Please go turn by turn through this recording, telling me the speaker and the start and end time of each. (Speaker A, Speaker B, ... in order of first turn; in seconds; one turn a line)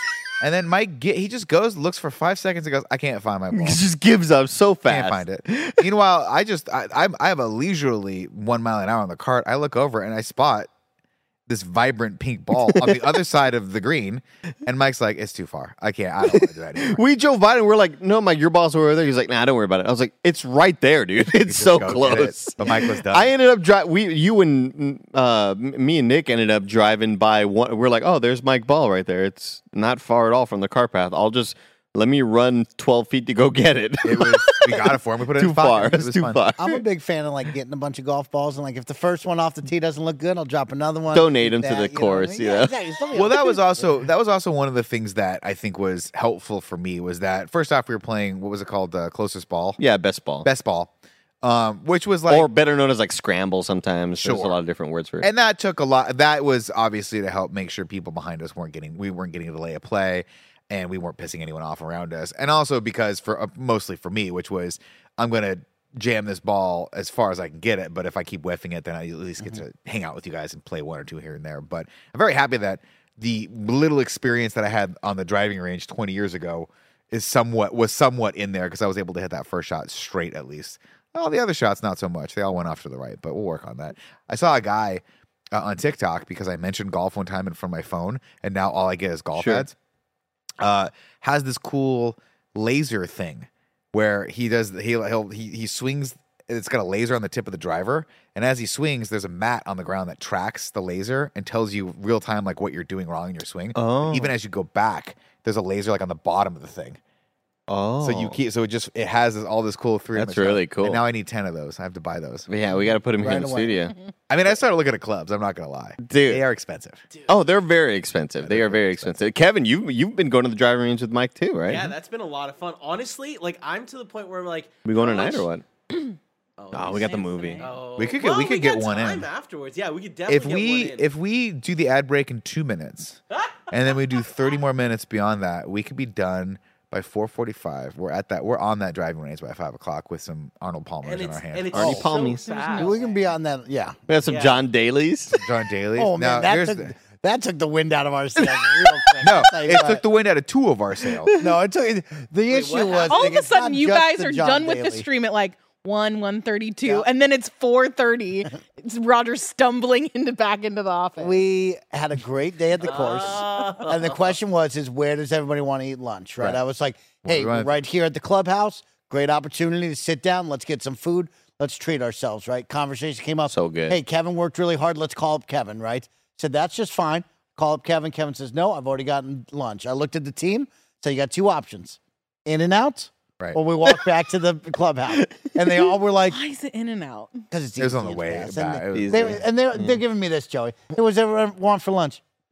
Speaker A: 0.4-3.8
Speaker B: 3.5-5.9
Speaker A: 4.8-10.7
Speaker A: 11.5-17.0
Speaker B: 12.6-13.1
Speaker B: 16.3-36.8
Speaker A: 21.3-23.3
Speaker A: 34.0-36.4
Speaker C: 36.6-43.9
Speaker B: 41.1-42.7
Speaker A: 43.1-49.8
Speaker B: 49.8-50.5
Speaker A: 50.4-52.5
Speaker B: 52.3-55.3
Speaker A: 54.2-54.6
Speaker A: 55.2-89.7
Speaker B: 89.3-89.7
Speaker A: 90.6-107.0
Speaker B: 103.7-104.3
Speaker B: 107.7-108.4
Speaker A: 108.0-112.5
Speaker B: 110.1-111.0
Speaker B: 112.5-113.9
Speaker C: 113.2-113.8
Speaker A: 114.3-117.0
Speaker B: 116.0-116.4
Speaker B: 117.3-121.9
Speaker A: 118.4-119.1
Speaker D: 121.7-125.5
Speaker B: 124.8-125.6
Speaker D: 126.6-131.1
Speaker B: 126.7-127.7
Speaker E: 126.8-127.7
Speaker A: 128.0-129.3
Speaker A: 130.3-142.1
Speaker D: 141.0-143.2
Speaker B: 141.7-142.4
Speaker E: 142.4-143.1
Speaker C: 142.7-144.1
Speaker B: 144.1-145.4
Speaker D: 144.2-144.6
Speaker A: 145.3-146.9
Speaker C: 146.0-150.0
Speaker A: 149.2-151.3
Speaker B: 151.2-151.5
Speaker C: 151.4-155.1
Speaker D: 152.5-153.3
Speaker E: 153.1-161.4
Speaker C: 161.2-186.4
Speaker D: 162.8-164.3
Speaker A: 167.2-167.8
Speaker B: 173.5-174.0
Speaker B: 185.1-185.7
Speaker E: 186.3-187.4
Speaker C: 187.5-192.2
Speaker A: 187.8-189.4
Speaker B: 188.9-190.0